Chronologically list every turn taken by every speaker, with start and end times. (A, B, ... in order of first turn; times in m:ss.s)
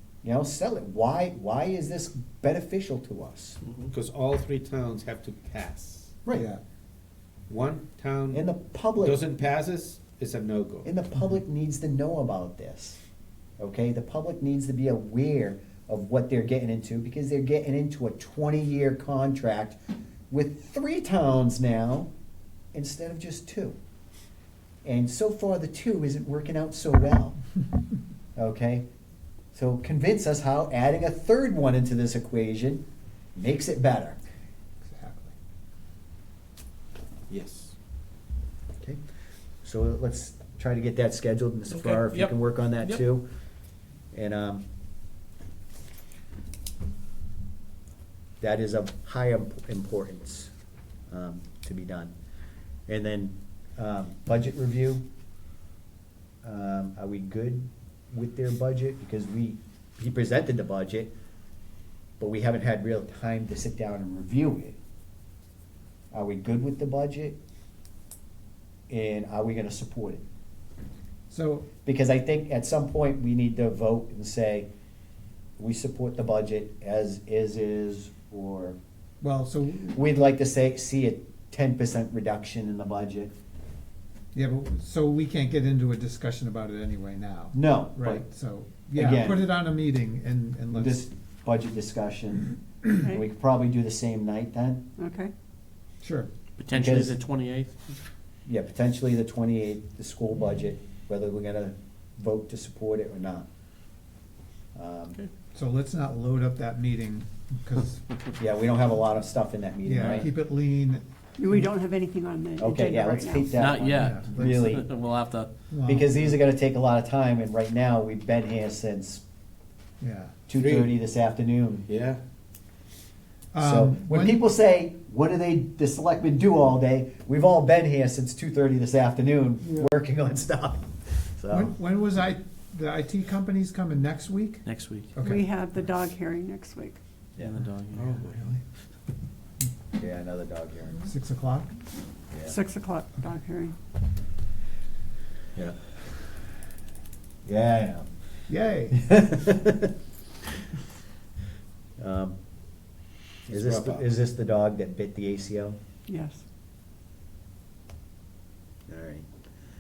0:00.2-0:03.6 A
0:03.6-0:03.9 B
0:03.9-0:06.2 C
0:06.3-0:06.6 D
0:07.5-0:10.9 C
0:08.3-0:09.2 A
0:10.8-0:13.0 A
0:13.6-0:19.8 A
0:20.3-0:22.1 A
0:22.7-0:23.8 A
0:24.8-0:27.4 A
0:28.4-0:28.8 A
0:29.5-0:32.8 A
0:33.3-0:34.2 A
0:34.8-0:35.3 D
0:37.3-0:37.7 C
0:39.6-0:43.2 A
0:41.8-0:42.3 B
0:44.1-0:44.6 A
0:48.4-0:50.5 A
0:51.1-0:52.1 A
0:52.9-0:55.0 A
0:56.4-1:01.1 A
1:02.2-1:04.8 A
1:06.1-1:07.4 A
1:08.9-1:10.2 A
1:11.3-1:11.7 D
1:11.8-1:14.7 A
1:15.6-1:18.8 A
1:19.2-1:20.0 D
1:19.9-1:23.3 A
1:24.3-1:31.0 D
1:27.5-1:28.2 A
1:29.0-1:29.5 A
1:30.7-1:34.8 A
1:35.0-1:35.3 E
1:36.0-1:36.3 D
1:36.6-1:38.0 B
1:36.7-1:37.2 A
1:38.4-1:43.4 A
1:44.7-1:45.2 A
1:45.5-1:48.0 D
1:48.4-1:50.3 A
1:49.8-1:51.7 D
1:51.4-1:53.8 E
1:52.6-1:54.9 A
1:53.5-1:55.5 B
1:53.8-1:54.7 D
1:55.7-1:56.1 D
1:55.8-1:59.2 A
2:00.0-2:00.4 D
2:00.5-2:01.8 A
2:00.5-2:00.9 C
2:01.9-2:02.2 C
2:03.5-2:04.4 D
2:03.6-2:11.7 A
2:11.5-2:14.6 D
2:14.6-2:15.1 B
2:15.1-2:15.4 D
2:15.2-2:17.0 E
2:17.4-2:18.2 B
2:17.9-2:18.4 C
2:18.2-2:18.6 D
2:20.0-2:21.0 A
2:21.0-2:21.7 D
2:22.5-2:23.8 E
2:27.4-2:28.1 A
2:28.5-2:29.1 D
2:29.1-2:29.9 A
2:32.0-2:32.4 A
2:33.4-2:34.1 C
2:33.5-2:35.8 A
2:36.1-2:36.4 E
2:38.9-2:39.3 A